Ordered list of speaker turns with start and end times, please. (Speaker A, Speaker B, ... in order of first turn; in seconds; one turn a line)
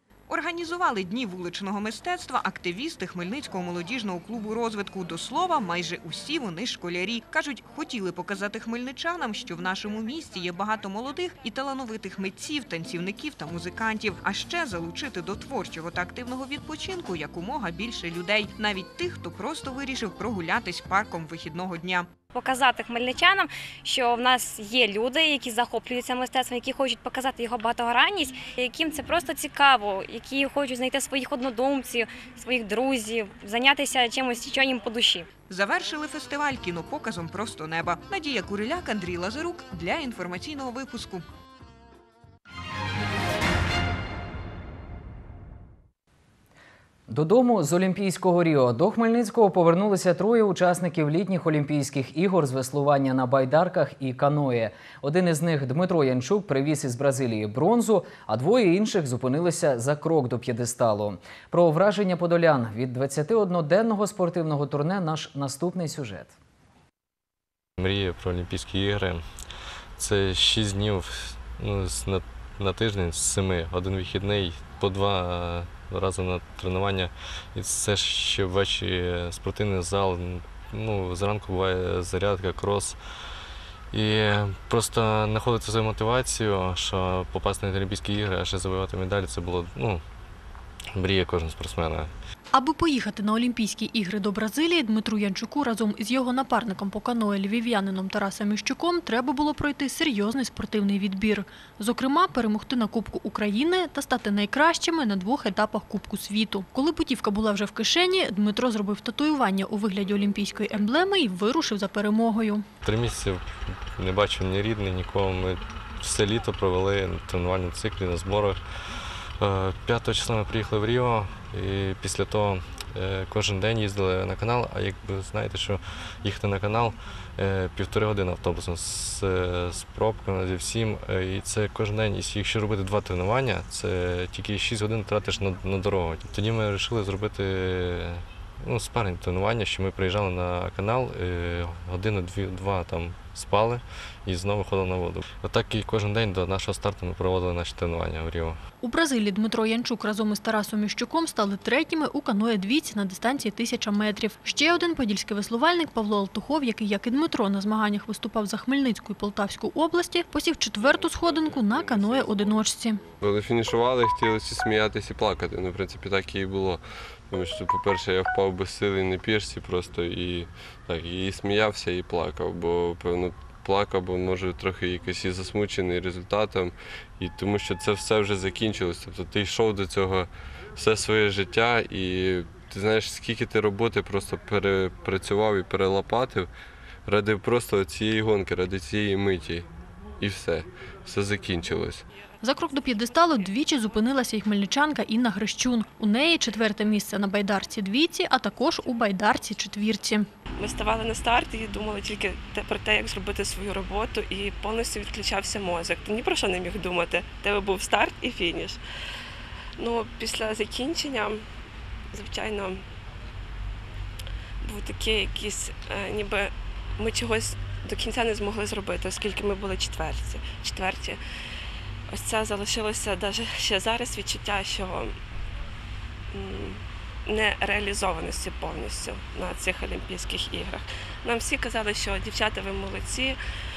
Speaker A: 0.3-22.1
Speaker B: 22.3-35.3
Speaker A: 35.5-41.2
Speaker C: 47.1-66.3
Speaker D: 67.8-69.2
Speaker D: 70.0-83.0
Speaker D: 83.9-90.0
Speaker D: 90.9-92.1
Speaker E: 92.5-112.6
Speaker D: 112.8-118.6
Speaker D: 119.4-148.6
Speaker E: 148.8-163.0
Speaker F: 163.1-186.5
Speaker F: 187.1-189.7
Speaker F: 190.2-192.0
Speaker E: 192.4-200.3
Speaker G: 200.6-208.8
Speaker G: 209.8-211.4
Speaker G: 212.1-212.8
Speaker G: 214.6-221.2
Speaker G: 222.1-225.2
Speaker G: 226.3-233.4